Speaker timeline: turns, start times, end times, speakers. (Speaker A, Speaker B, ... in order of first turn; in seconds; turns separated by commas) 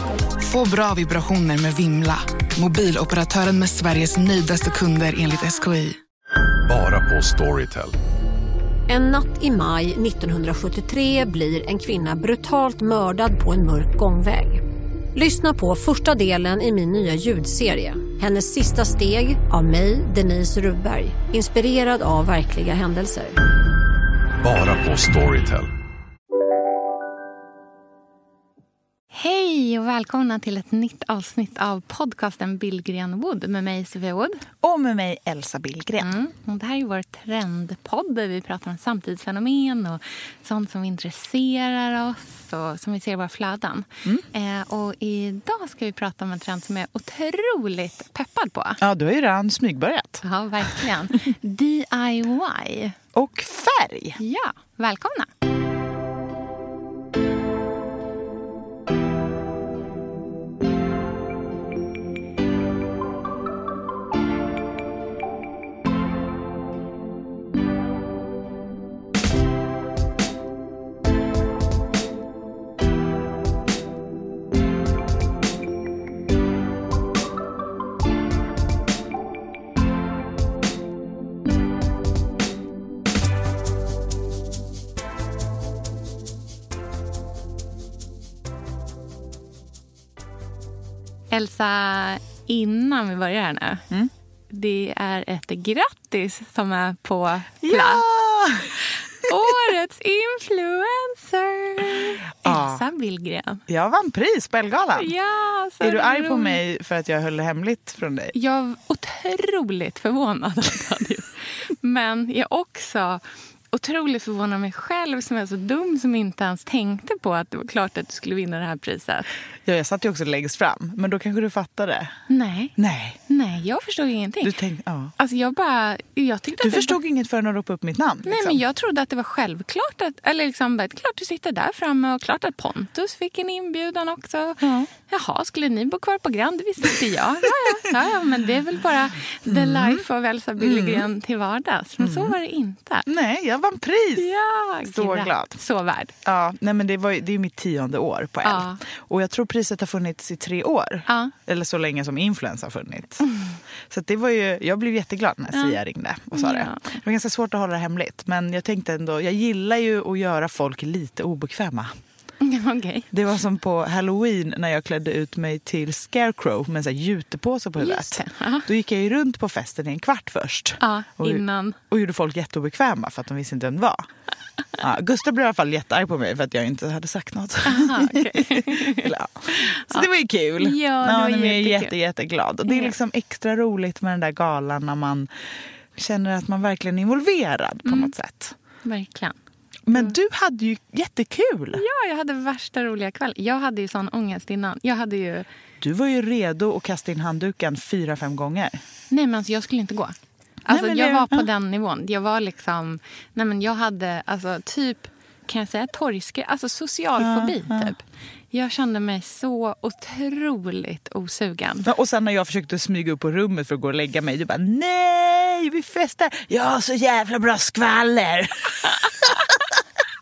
Speaker A: 0.4-6.0, Speaker B: 6.7-7.9, Speaker C: 8.9-14.6, Speaker C: 15.1-23.4, Speaker B: 24.4-25.7, Speaker D: 29.1-34.4, Speaker E: 34.6-36.1, Speaker D: 36.0-48.8, Speaker E: 48.8-50.8, Speaker D: 50.2-53.0, Speaker E: 53.1-54.2, Speaker D: 54.2-55.3, Speaker D: 91.3-93.9, Speaker D: 94.5-98.0, Speaker E: 97.6-98.8, Speaker D: 98.8-103.6, Speaker E: 101.9-102.8, Speaker E: 103.7-105.1, Speaker D: 105.0-106.6, Speaker E: 105.8-108.3, Speaker D: 108.3-119.3, Speaker E: 119.6-122.2, Speaker D: 122.3-124.5, Speaker E: 122.8-123.2, Speaker E: 124.4-125.1, Speaker D: 125.2-127.0, Speaker E: 126.6-128.6, Speaker D: 128.2-143.1, Speaker E: 134.6-134.9, Speaker E: 139.4-140.0, Speaker E: 140.6-141.1, Speaker E: 142.0-142.3, Speaker E: 143.1-144.3, Speaker D: 144.2-146.2, Speaker E: 144.8-145.6, Speaker E: 146.2-153.3, Speaker D: 148.4-148.8, Speaker D: 151.1-151.3, Speaker D: 153.2-153.6, Speaker E: 153.9-161.9, Speaker D: 155.5-155.8, Speaker D: 156.3-156.9, Speaker D: 162.4-163.1, Speaker E: 163.1-174.1, Speaker D: 167.8-168.7, Speaker D: 170.8-171.8, Speaker E: 174.8-188.6, Speaker D: 177.6-180.1, Speaker D: 180.6-181.9, Speaker D: 182.7-182.9, Speaker D: 187.8-188.1, Speaker D: 188.8-189.4, Speaker E: 189.9-191.8, Speaker D: 191.7-195.5, Speaker E: 195.8-198.8, Speaker D: 199.1-200.1, Speaker D: 200.7-211.9, Speaker E: 200.7-201.5, Speaker E: 207.2-207.9, Speaker E: 211.8-219.8, Speaker D: 218.9-219.6